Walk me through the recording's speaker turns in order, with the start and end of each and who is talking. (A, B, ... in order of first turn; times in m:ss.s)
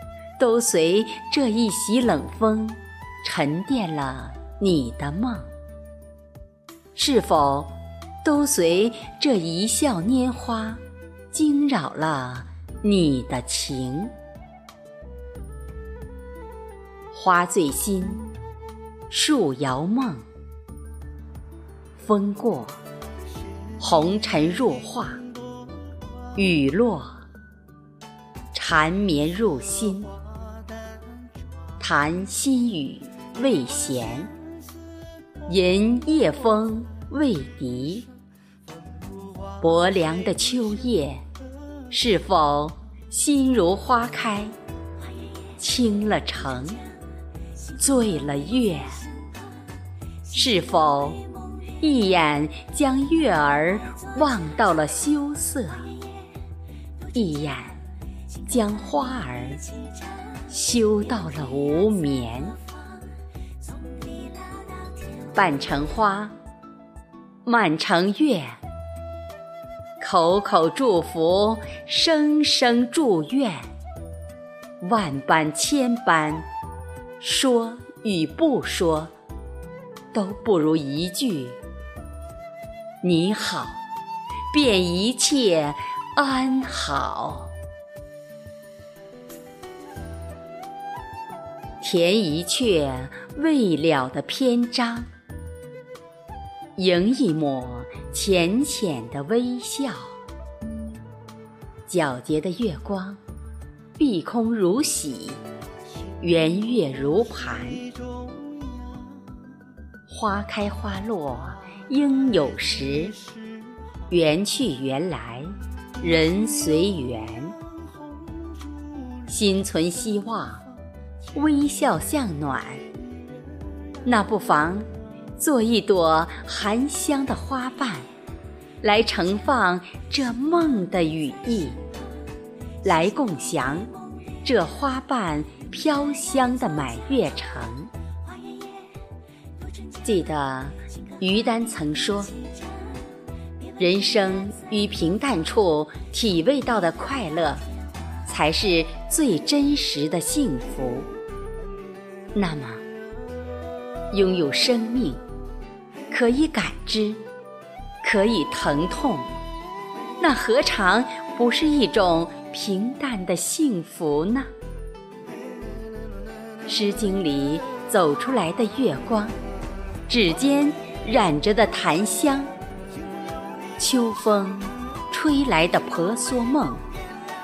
0:00.4-0:05.5 A
0:07.0-0:14.1 A
0:17.1-0:18.3 A
0:19.1-0:20.3 A
0:22.0-0:22.8 A
0:23.8-0:25.2 A
0:26.3-0:27.2 A
0:28.5-0:30.1 A
0:31.8-0:34.3 A
0:35.5-0:38.1 A
0:39.6-0:41.2 A
0:41.9-0:44.6 A
0:45.6-0:46.8 A
0:47.8-0:49.0 A
0:50.3-0:51.2 A
0:51.8-0:55.9 A
0:57.1-0:57.8 A
0:58.4-0:59.7 A
1:00.5-1:02.6 A
1:05.3-1:06.3 A
1:07.4-1:08.6 A
1:10.0-1:13.7 A
1:14.8-1:16.5 A
1:17.2-1:19.1 A
1:20.1-1:21.6 A
1:23.0-1:23.8 A
1:24.5-1:27.5 A
1:31.8-1:35.1 A
1:36.8-1:40.2 A
1:41.9-1:43.2 A
1:44.0-1:45.4 A
1:46.2-1:47.8 A
1:50.1-1:53.2 A
1:54.1-1:57.6 A
1:59.2-2:00.6 A
2:01.3-2:02.8 A
2:04.0-2:08.1 A
2:08.8-2:11.8 A
2:12.8-2:13.9 A
2:14.4-2:17.9 A
2:20.0-2:22.3 A
2:23.8-2:27.6 A
2:28.2-2:31.1 A
2:32.3-2:32.8 A
2:34.1-2:35.2 A
2:36.1-2:37.2 A
2:38.0-2:39.3 A
2:40.2-2:44.5 A
2:46.6-2:49.4 A
2:50.1-2:52.5 A
2:53.8-2:56.8 A